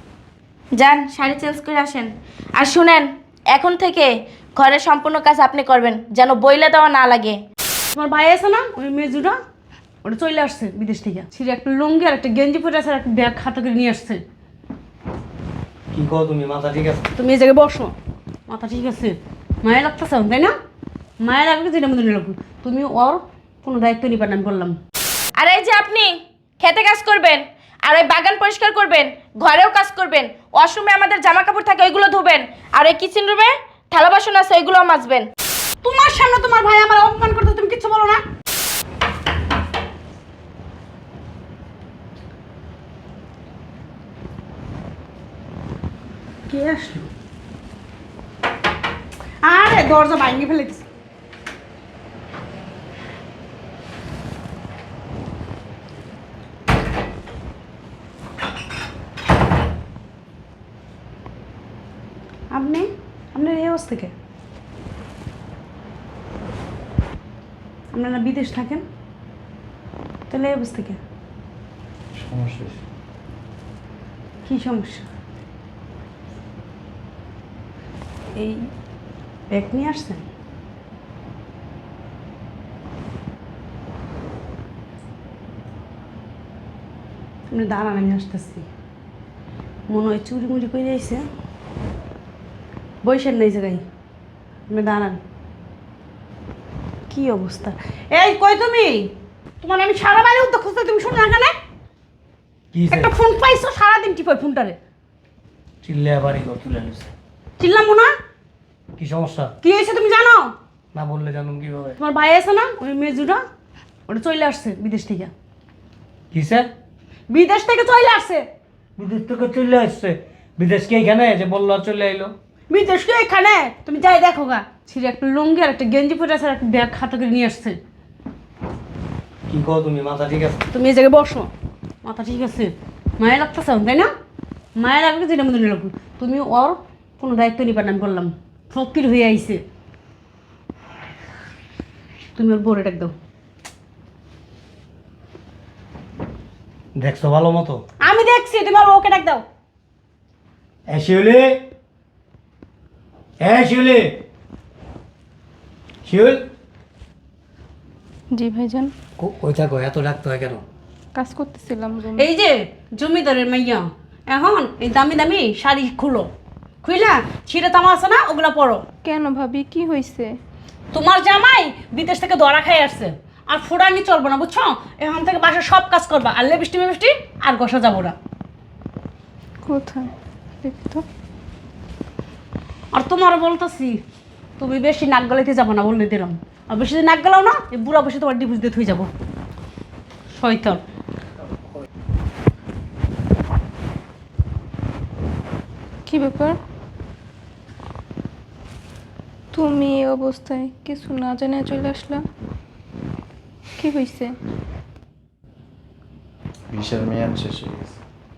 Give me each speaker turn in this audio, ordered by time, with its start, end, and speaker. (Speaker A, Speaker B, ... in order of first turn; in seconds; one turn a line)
Speaker A: 0.8-7.4
Speaker B: 7.9-9.4
Speaker B: 10.0-14.2
Speaker C: 15.9-17.1
Speaker B: 17.1-17.9
Speaker B: 18.5-20.5
Speaker B: 21.2-24.8
Speaker A: 25.4-35.3
Speaker B: 35.8-38.2
Speaker B: 46.5-47.1
Speaker B: 49.4-50.8
Speaker B: 62.5-64.1
Speaker B: 67.9-68.8
Speaker B: 70.3-71.0
Speaker D: 72.1-72.8
Speaker B: 74.4-75.1
Speaker B: 78.3-78.7
Speaker B: 79.5-80.2
Speaker B: 87.5-88.7
Speaker B: 89.9-91.2
Speaker B: 93.0-93.8
Speaker B: 94.7-95.2
Speaker B: 97.1-99.1
Speaker B: 99.6-101.5
Speaker C: 102.7-103.1
Speaker B: 102.9-104.8
Speaker C: 105.8-107.1
Speaker B: 107.6-108.1
Speaker C: 109.0-109.5
Speaker B: 109.6-110.5
Speaker C: 110.9-112.0
Speaker B: 112.0-113.4
Speaker B: 114.1-115.3
Speaker C: 116.3-116.7
Speaker B: 117.3-118.4
Speaker C: 119.0-122.3
Speaker B: 122.7-127.8
Speaker C: 129.5-130.6
Speaker B: 130.7-131.5
Speaker B: 132.0-134.1
Speaker B: 134.8-139.6
Speaker B: 142.3-143.1
Speaker C: 146.9-147.8
Speaker B: 148.0-149.4
Speaker C: 150.9-151.6
Speaker C: 153.4-154.2
Speaker C: 156.1-156.4
Speaker E: 158.3-158.9
Speaker C: 159.2-160.6
Speaker E: 161.2-162.2
Speaker B: 162.2-166.3
Speaker B: 166.8-168.8
Speaker E: 169.0-170.3
Speaker B: 170.9-178.2
Speaker E: 179.6-180.1
Speaker E: 180.6-181.0
Speaker B: 182.9-184.0
Speaker B: 184.6-189.1
Speaker B: 190.3-190.8
Speaker E: 196.1-196.6
Speaker E: 199.5-202.2
Speaker E: 203.8-204.3
Speaker D: 206.7-208.0